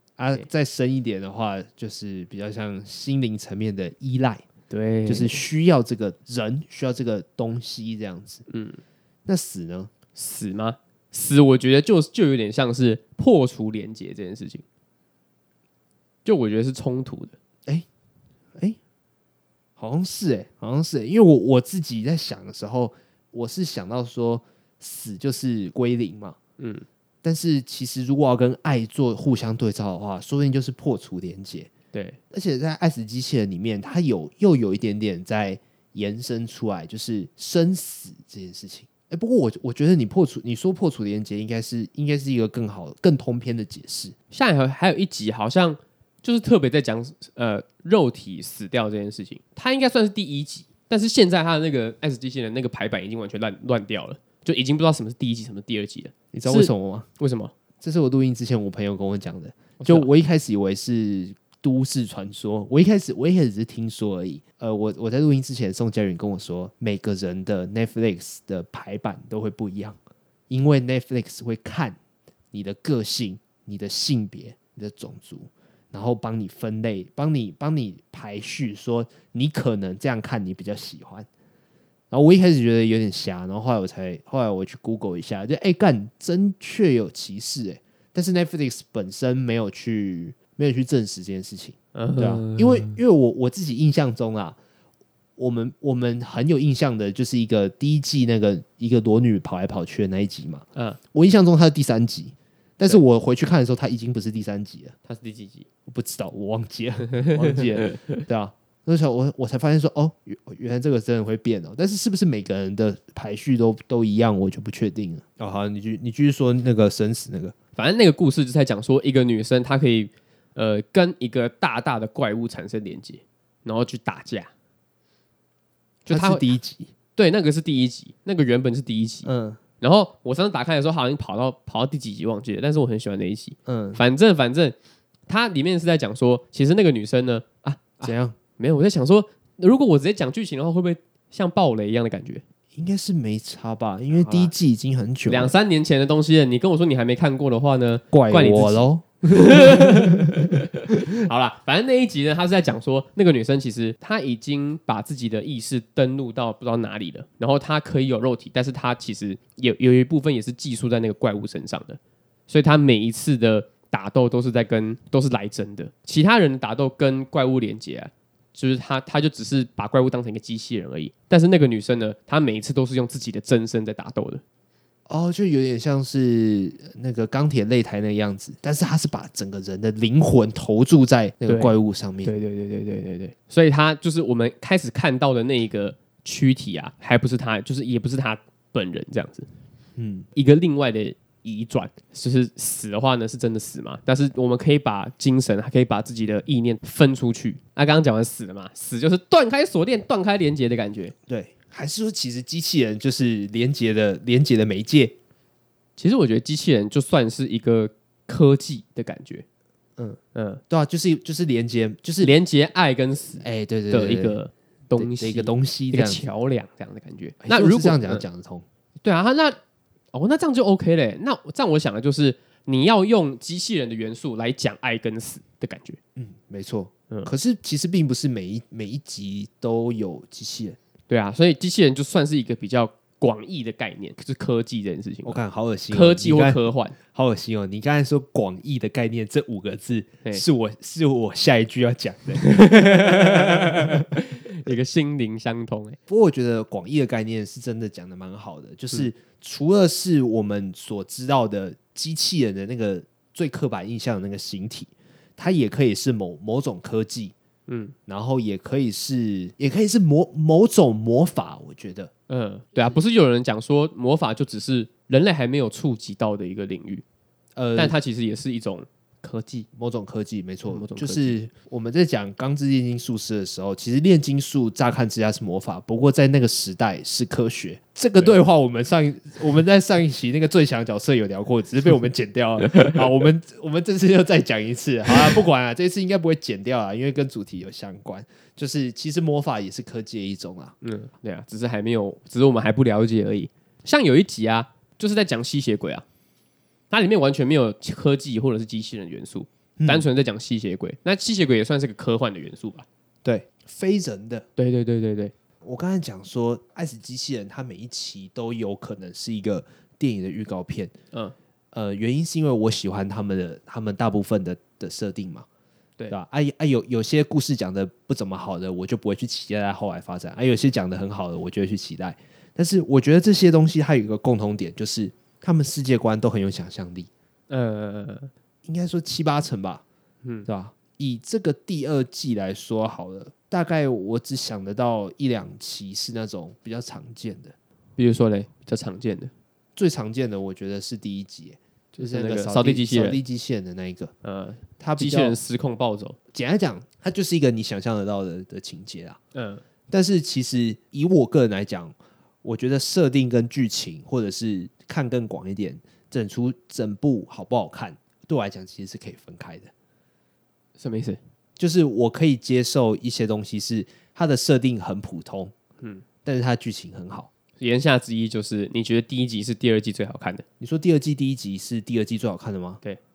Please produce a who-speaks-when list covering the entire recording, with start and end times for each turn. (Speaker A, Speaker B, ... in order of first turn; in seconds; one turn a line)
Speaker A: 0.2-4.5
Speaker B: 4.7-5.4
Speaker A: 5.1-8.4
Speaker B: 8.5-8.8
Speaker A: 9.3-9.9
Speaker B: 10.2-14.6
Speaker B: 16.2-17.4
Speaker A: 19.8-26.4
Speaker B: 26.6-26.9
Speaker A: 27.2-31.7
Speaker B: 31.9-32.2
Speaker A: 32.3-44.1
Speaker B: 44.3-57.5
Speaker A: 56.3-57.1
Speaker A: 57.8-70.0
Speaker B: 59.8-60.1
Speaker A: 70.5-72.0
Speaker A: 72.5-81.3
Speaker A: 82.1-94.6
Speaker B: 92.0-93.0
Speaker A: 95.4-105.0
Speaker B: 105.1-105.7
Speaker A: 105.9-117.5
Speaker B: 107.2-108.2
Speaker B: 117.8-124.5
Speaker B: 126.1-126.5
Speaker A: 126.1-126.9
Speaker B: 127.2-129.3
Speaker A: 129.2-129.6
Speaker B: 129.8-134.8
Speaker A: 133.7-134.0
Speaker B: 135.3-142.4
Speaker A: 138.0-138.4
Speaker A: 142.8-145.5
Speaker B: 144.1-144.5
Speaker B: 145.3-174.4
Speaker A: 148.1-150.6
Speaker A: 175.1-182.3
Speaker B: 181.5-189.5
Speaker A: 190.0-190.3
Speaker B: 190.3-201.1
Speaker A: 201.3-205.2
Speaker B: 206.0-209.4
Speaker B: 210.3-210.6
Speaker A: 210.7-212.3
Speaker B: 212.2-218.2
Speaker A: 213.4-214.4
Speaker A: 215.0-216.2
Speaker A: 217.4-218.7
Speaker B: 219.0-219.6
Speaker B: 220.1-226.0
Speaker A: 226.2-230.8
Speaker B: 231.1-235.4
Speaker A: 235.2-244.1
Speaker B: 235.9-237.0
Speaker B: 242.4-246.0
Speaker A: 246.1-257.4
Speaker B: 257.7-257.9
Speaker A: 258.1-262.1
Speaker B: 262.3-267.0
Speaker A: 267.6-267.9
Speaker B: 267.8-269.7
Speaker A: 269.7-290.8
Speaker B: 270.7-271.4
Speaker B: 290.8-296.1
Speaker B: 296.9-302.9
Speaker A: 299.8-300.1
Speaker A: 303.2-304.5
Speaker B: 304.6-305.3
Speaker A: 305.6-310.9
Speaker A: 311.7-315.5
Speaker A: 316.1-327.1
Speaker B: 327.5-328.3
Speaker A: 328.6-329.8
Speaker A: 330.5-337.6
Speaker B: 338.0-339.3
Speaker A: 339.8-344.1
Speaker B: 341.9-343.2
Speaker B: 344.2-346.2
Speaker A: 344.8-345.4
Speaker A: 346.3-349.2
Speaker B: 349.4-349.6
Speaker A: 349.9-359.7
Speaker B: 360.8-361.2
Speaker A: 361.6-365.5
Speaker A: 366.2-367.3
Speaker B: 367.6-370.4
Speaker A: 370.6-372.8